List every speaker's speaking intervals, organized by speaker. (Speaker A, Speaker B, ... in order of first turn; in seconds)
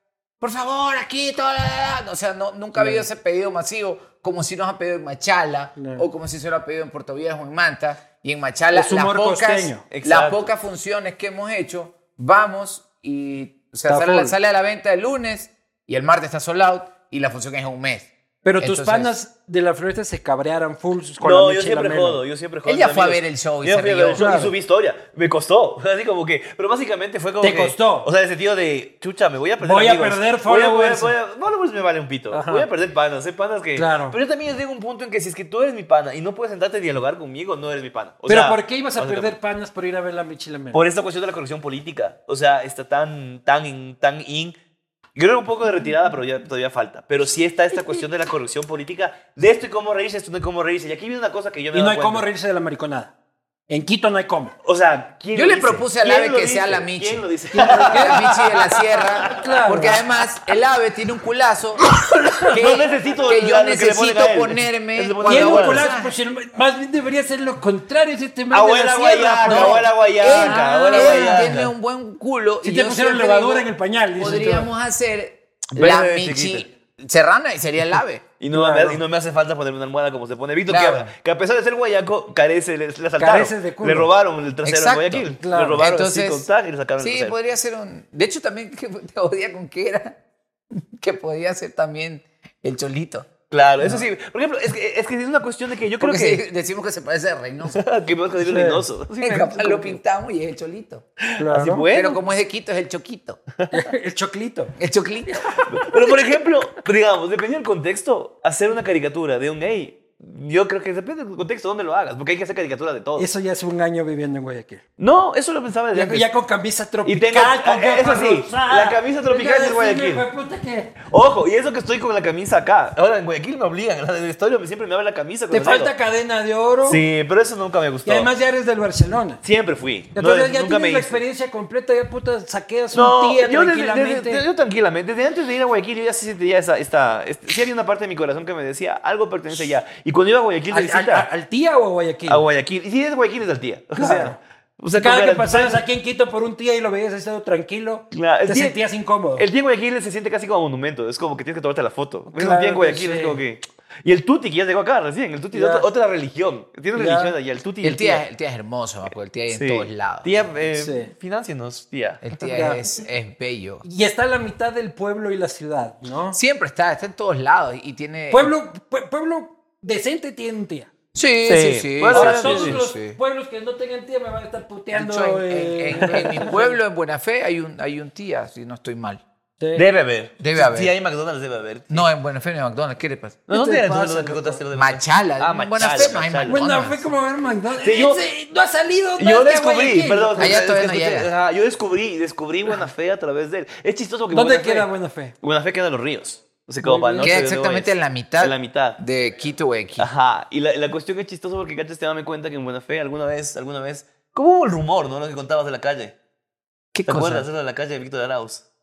Speaker A: 0.4-19.1, 22.6-24.3, 55.3-57.2, 57.9-61.9, 62.5-66.1, 69.5-78.2, 80.7-81.1, 84.7-86.5, 87.0-90.2, 90.8-93.3, 96.0-97.8, 99.2-101.0, 101.9-103.4, 104.8-105.4, 157.8-160.5, 162.2-163.8, 166.3-168.5, 171.1-173.2, 174.9-179.2, 180.4-180.9, 181.9-183.4, 184.7-187.1, 190.4-191.3, 197.2-200.1, 206.9-207.5
Speaker B: 2.8-3.1, 5.8-6.1, 8.7-9.8, 13.9-14.3, 18.4-22.2, 24.1-24.5, 27.4-28.1, 29.6-31.1, 32.3-32.7, 33.8-34.2, 38.3-40.8, 51.7-53.1, 53.7-54.5, 57.5-58.2, 59.3-60.0, 65.3-71.5, 72.6-74.7, 78.5-79.0, 83.2-84.1, 85.4-85.8, 98.4-98.8, 101.4-101.9, 103.7-104.8, 113.2-114.8, 115.9-121.0, 125.5-127.0, 128.1-129.4, 130.2-134.4, 140.7-142.4, 144.0-144.4, 144.9-149.5, 152.3-153.4, 155.5-155.9, 156.9-157.3, 160.7-161.1, 162.4-162.9, 163.8-166.4, 168.3-170.9, 172.1-176.8, 179.6-179.8, 183.5-184.6, 186.5-190.6, 194.3-195.3, 196.8-197.3
Speaker C: 9.9-10.5, 21.2-39.4, 40.7-44.5, 45.2-52.2, 54.6-59.9, 61.9-65.9, 68.5-71.7, 75.8-76.7, 78.4-87.3, 93.5-96.4, 97.7-100.0, 101.2-102.2, 105.7-113.3, 115.0-116.3, 117.0-120.3, 121.0-125.9, 126.8-128.3, 129.4-131.2, 132.9-141.3, 142.3-145.8, 148.1-148.8, 149.4-158.2, 159.5-162.2, 171.4-172.8, 179.8-182.1, 183.5-186.6, 187.8-188.2, 189.2-199.0, 200.0-206.2, 207.1-208.7